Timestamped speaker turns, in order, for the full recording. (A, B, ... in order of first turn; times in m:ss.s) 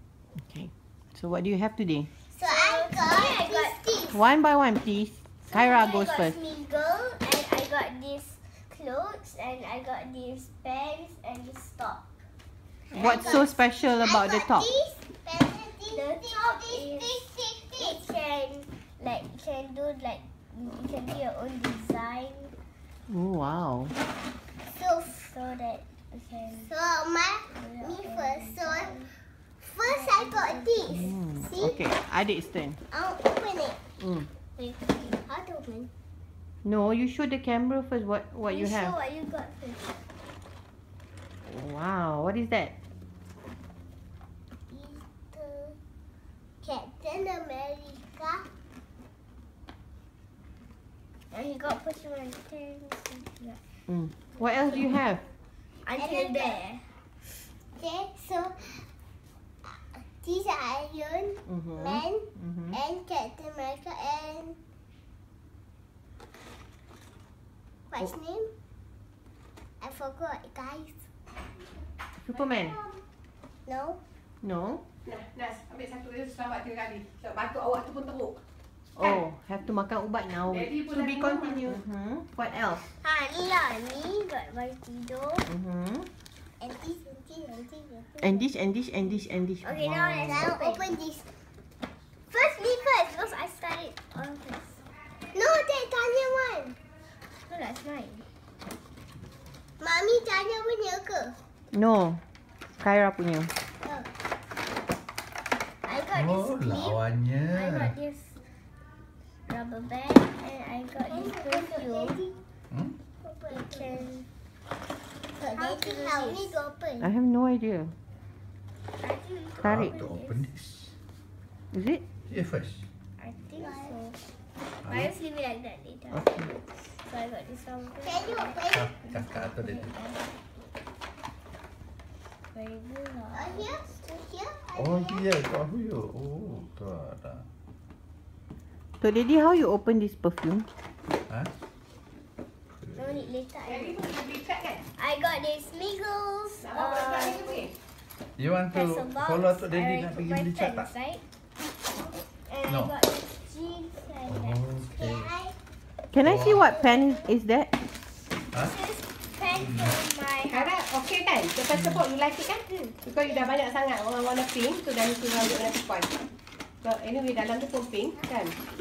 0:00.4-0:02.1 A
0:02.3-0:04.2 B
0:02.4-0:03.8 C
0:04.1-0:06.4 A
0:05.5-0:12.1 C
0:12.9-0:14.7 A
0:12.9-0:18.0 B
0:12.9-0:13.4 C
0:15.9-0:22.5 C
0:23.1-0:23.9 A
0:24.7-0:25.2 B
0:25.1-0:26.7 C
0:26.6-0:29.0 B
0:27.5-0:29.1 C
0:29.6-0:31.8 B
0:29.8-0:31.2 C
0:30.9-0:32.8 A
0:32.9-0:33.8 B
0:34.0-0:34.3 A
0:34.6-0:35.0 C
0:35.1-0:35.9 B
0:36.6-0:39.0 A
0:38.5-0:40.0 C
0:41.4-0:42.7 A
0:44.7-0:45.8 B
0:46.6-0:48.4 B
0:51.3-0:53.6 C
0:53.9-0:55.2 A
0:55.8-0:56.9 C
0:56.0-0:56.6 B
0:57.7-0:58.9 B
0:59.6-1:04.6 B
1:01.5-1:02.8 A
1:07.9-1:08.5 B
1:09.8-1:11.0 B
1:12.2-1:12.8 A
1:12.6-1:13.0 B
1:13.6-1:14.0 B
1:14.4-1:14.9 A
1:15.0-1:18.4 D
1:19.0-1:22.9 A
1:20.4-1:21.8 D
1:23.0-1:25.5 C
1:25.5-1:26.1 A
1:26.6-1:28.5 B
1:28.2-1:30.4 A
1:29.6-1:30.9 C
1:30.2-1:31.3 B
1:32.3-1:34.8 C
1:35.3-1:36.8 B
1:37.5-1:38.3 C
1:39.8-1:41.4 B
1:41.7-1:42.2 A
1:42.8-1:43.5 A
1:43.8-1:44.1 B
1:45.8-1:47.0 C
1:46.1-1:47.9 E
1:47.5-1:48.4 C
1:49.5-1:52.2 C
1:51.1-1:52.4 B
1:52.7-1:53.0 E
1:53.2-1:54.1 B
1:53.5-1:54.3 C
1:55.4-1:57.1 B
1:55.5-1:56.6 C
1:57.0-1:57.9 A
1:59.0-2:00.5 C
1:59.6-2:00.9 E
2:01.7-2:02.0 A
2:02.3-2:02.8 E
2:03.2-2:04.2 C
2:03.6-2:04.0 B
2:04.8-2:05.1 E
2:04.8-2:10.3 C
2:06.1-2:06.5 A
2:08.0-2:08.9 B
2:08.7-2:09.9 E
2:12.5-2:13.7 C
2:13.3-2:15.3 B
2:14.7-2:17.4 E
2:19.0-2:20.7 A
2:22.8-2:23.3 E
2:23.0-2:23.9 C
2:23.7-2:24.8 D
2:25.0-2:27.6 C
2:26.6-2:27.7 D
2:28.4-2:30.9 E
2:28.7-2:31.2 C
2:32.4-2:34.6 C
2:32.7-2:32.9 E
2:34.3-2:35.3 E
2:35.0-2:35.5 B
2:36.1-2:37.7 A
2:36.2-2:36.7 E
2:38.6-2:40.7 C
2:39.5-2:40.0 E
2:40.5-2:46.1 D
2:46.8-2:48.6 D